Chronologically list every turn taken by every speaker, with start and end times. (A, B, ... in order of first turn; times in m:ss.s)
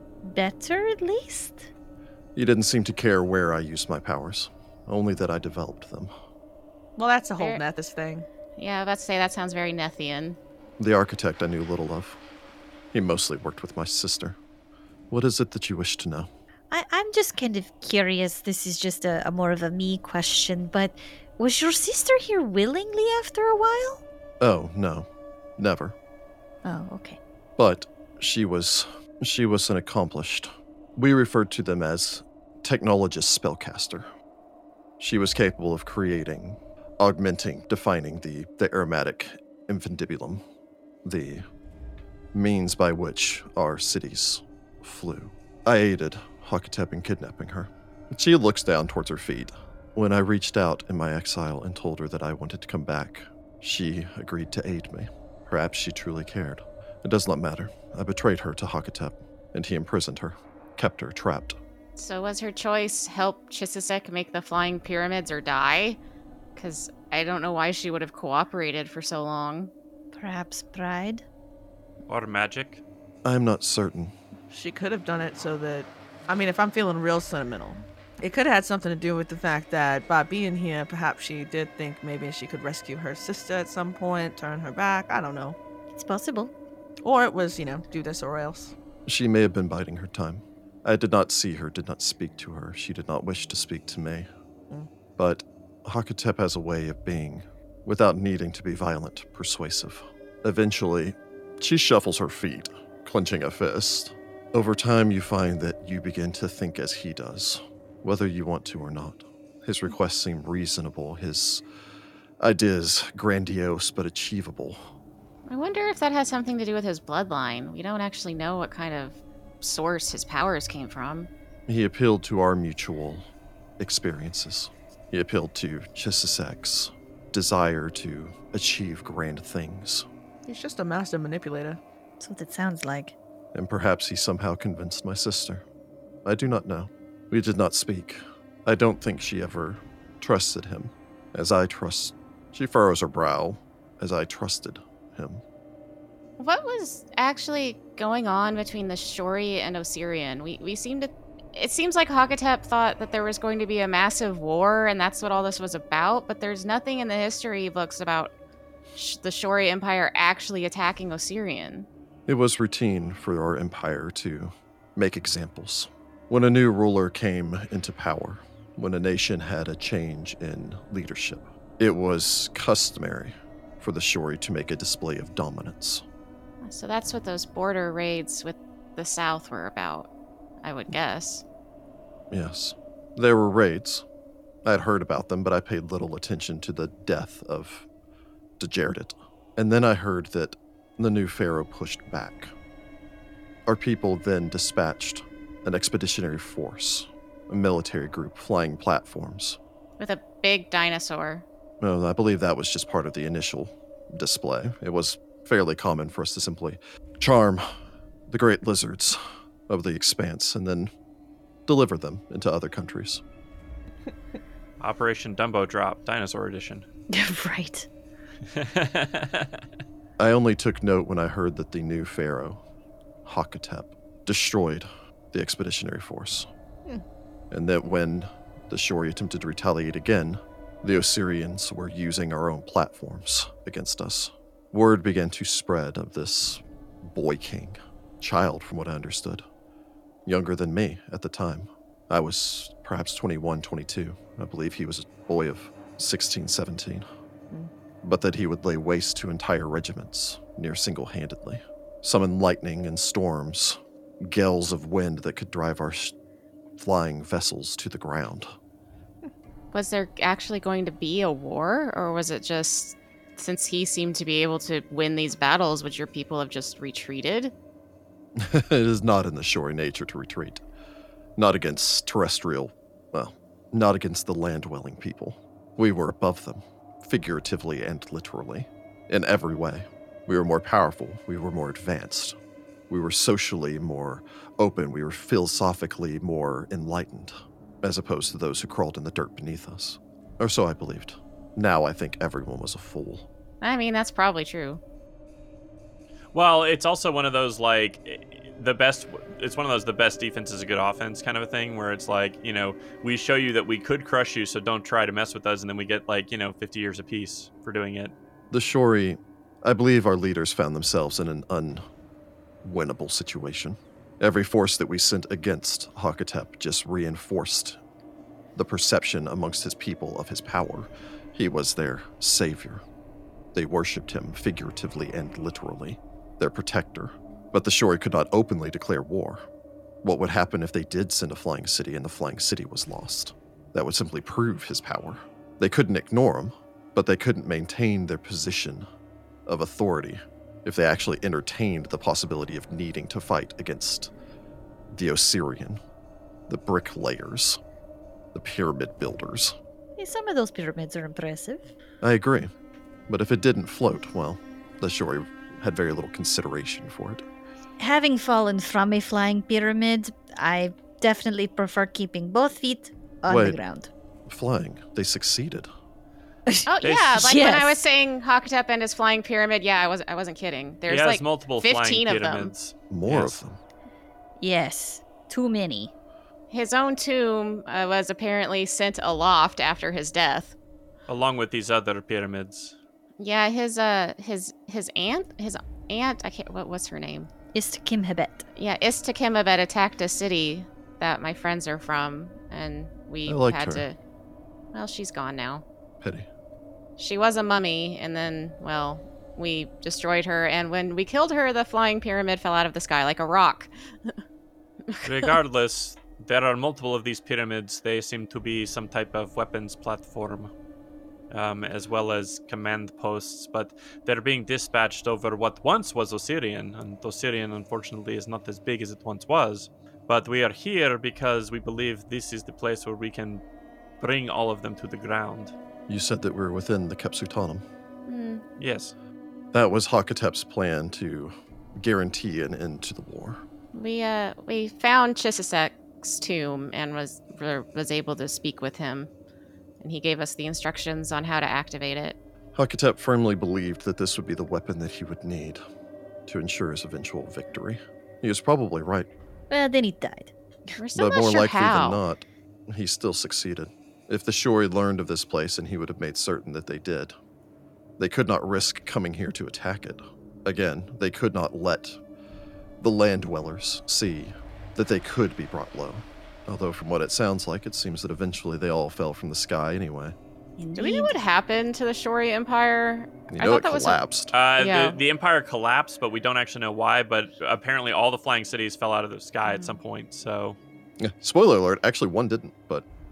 0:00.2-0:01.7 A
0:02.4-0:06.1 B
0:07.0-0:08.3 C
0:08.6-0:10.4 D
0:10.8-0:12.2 B
0:12.9-0:14.4 B
0:15.1-0:16.3 B
0:16.7-0:24.0 A
0:24.4-0:25.1 B
0:25.6-0:26.0 B
0:26.6-0:27.2 A
0:27.6-0:34.1 B
0:35.0-0:40.4 B
0:41.0-0:41.4 B
0:42.3-1:01.6 B
1:02.0-1:06.0 D
1:06.6-1:09.7 D
1:10.2-1:11.2 A
1:12.1-1:12.8 E
1:13.2-1:14.1 B
1:14.5-1:25.6 C
1:25.9-1:26.5 A
1:27.0-1:28.7 C
1:29.1-1:34.3 B
1:35.2-1:51.6 B
1:52.4-1:54.8 B
1:55.5-2:01.3 D
2:01.7-2:10.1 B
2:10.5-2:11.8 C
2:12.2-2:13.2 A
2:13.5-2:15.6 B
2:16.2-2:25.4 B
2:26.4-2:38.3 D
2:39.0-2:41.9 D
2:42.3-2:56.0 B
2:56.6-3:00.1 D
3:00.6-3:01.4 D
3:02.3-3:04.0 B
3:04.6-3:07.9 B
3:08.6-3:12.5 B
3:13.7-3:19.6 B
3:20.0-3:21.4 D
3:21.8-3:27.7 B
3:28.3-3:30.9 B
3:31.7-3:33.2 B
3:34.8-3:36.9 E
3:37.1-3:37.9 A
3:38.5-3:39.6 E
3:40.2-3:42.6 B
3:43.2-3:46.5 B
3:47.5-3:59.4 B
4:00.3-4:07.1 B
4:08.0-4:16.2 B
4:16.8-4:18.5 B
4:19.7-4:27.5 D
4:28.4-4:30.6 B
4:31.4-4:42.4 B
4:42.9-4:53.3 B
4:53.6-4:54.8 D
4:56.3-5:08.1 E
5:08.5-5:11.8 B
5:12.6-5:17.8 B
5:18.6-5:22.8 B
5:23.5-5:29.4 B
5:30.0-5:38.9 B
5:39.5-5:44.1 B
5:44.9-5:45.8 B
5:46.5-5:47.6 B
5:48.3-5:49.6 B
5:50.0-5:51.6 A
5:52.0-5:52.5 B
5:53.1-5:57.2 B
5:57.8-6:03.9 A
6:03.3-6:03.6 B
6:04.3-6:05.7 B
6:06.5-6:07.8 A
6:06.7-6:12.5 D
6:06.8-6:07.1 E
6:10.9-6:13.4 E
6:12.9-6:13.6 B
6:14.4-6:15.9 A
6:16.5-6:20.6 D
6:21.1-6:22.8 E
6:23.2-6:27.3 D
6:27.5-6:28.5 A
6:28.6-6:34.0 D
6:33.3-6:33.8 B
6:34.7-6:35.6 D
6:36.0-6:36.3 B
6:37.0-6:44.1 D
6:44.9-6:45.3 D
6:45.0-6:50.5 E
6:51.3-7:03.4 E
7:04.0-7:05.5 E
7:05.9-7:07.6 B
7:08.1-7:08.4 D
7:08.6-7:08.9 E
7:09.5-7:13.4 B
7:13.7-7:19.1 D
7:19.8-7:22.2 D
7:22.6-7:25.6 B
7:26.3-7:29.1 B
7:29.5-7:30.3 A
7:30.8-7:32.0 D
7:31.0-7:37.2 B
7:38.0-7:42.0 B
7:42.8-7:50.2 B
7:50.6-7:51.2 A
7:50.8-7:54.0 D
7:53.3-7:54.3 B
7:54.3-8:00.6 E
7:54.6-7:55.0 D
7:59.5-7:59.8 D
8:01.0-8:02.9 B